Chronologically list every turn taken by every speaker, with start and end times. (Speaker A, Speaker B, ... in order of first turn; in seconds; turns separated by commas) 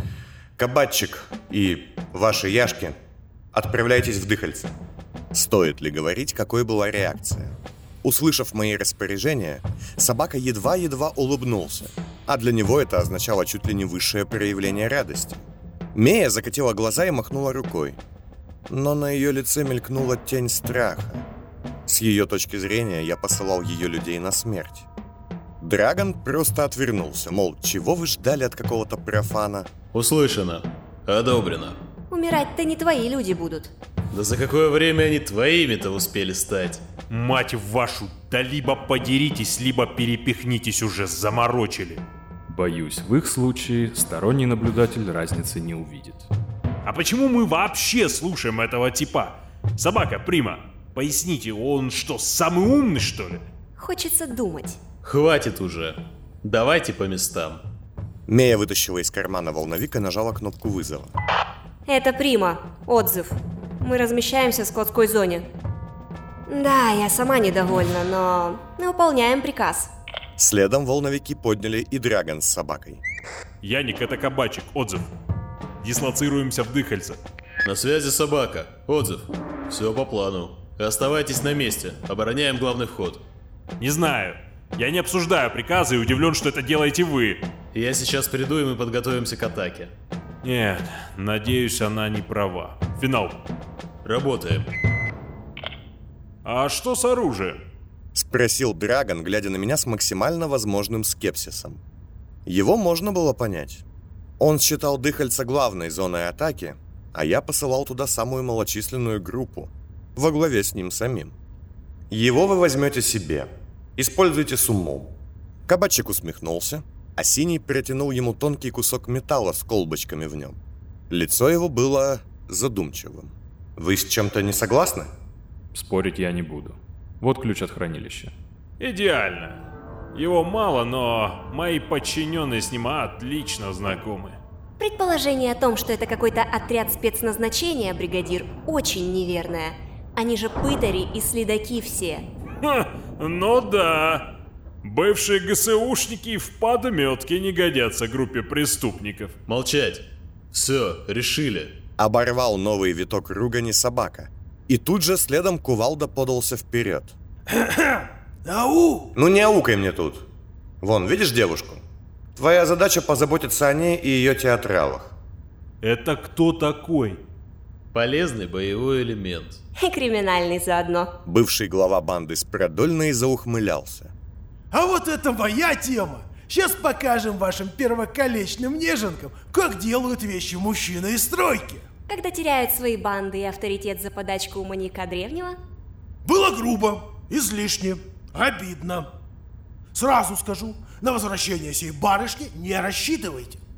Speaker A: 0.6-3.0, Speaker A: 3.5-4.7, Speaker A: 5.3-18.0, Speaker A: 18.7-21.2, Speaker A: 21.9-24.9, Speaker A: 25.6-29.7, Speaker B: 29.9-31.8, Speaker C: 32.1-33.7, Speaker B: 34.1-36.8, Speaker D: 37.1-42.0, Speaker E: 42.5-46.3, Speaker D: 46.8-53.4, Speaker C: 53.8-54.8, Speaker B: 55.0-57.6, Speaker A: 58.3-61.1, Speaker C: 61.9-65.5, Speaker C: 66.5-69.9, Speaker A: 70.4-73.0, Speaker D: 73.6-75.0, Speaker D: 75.8-77.2, Speaker B: 77.6-83.2, Speaker D: 83.8-87.4, Speaker B: 87.7-89.9, Speaker D: 90.4-93.4, Speaker B: 94.0-94.7, Speaker D: 96.4-97.6, Speaker A: 98.1-101.8, Speaker A: 102.4-103.8, Speaker A: 104.4-111.3, Speaker A: 112.1-115.1, Speaker A: 115.7-120.6, Speaker A: 121.1-125.1, Speaker E: 125.7-128.3, Speaker D: 128.8-134.4, Speaker C: 134.8-142.2, Speaker D: 142.6-144.3, Speaker D: 144.8-149.3, Speaker B: 149.4-151.8, Speaker A: 152.0-157.2, Speaker F: 157.5-159.1, Speaker A: 159.1-160.2, Speaker A: 160.8-161.8, Speaker A: 162.3-165.2, Speaker D: 165.8-167.2, Speaker B: 167.9-169.6, Speaker C: 169.8-171.1, Speaker A: 171.2-174.1, Speaker F: 174.7-181.8, Speaker C: 182.1-185.6, Speaker F: 186.2-189.1, Speaker F: 189.9-193.6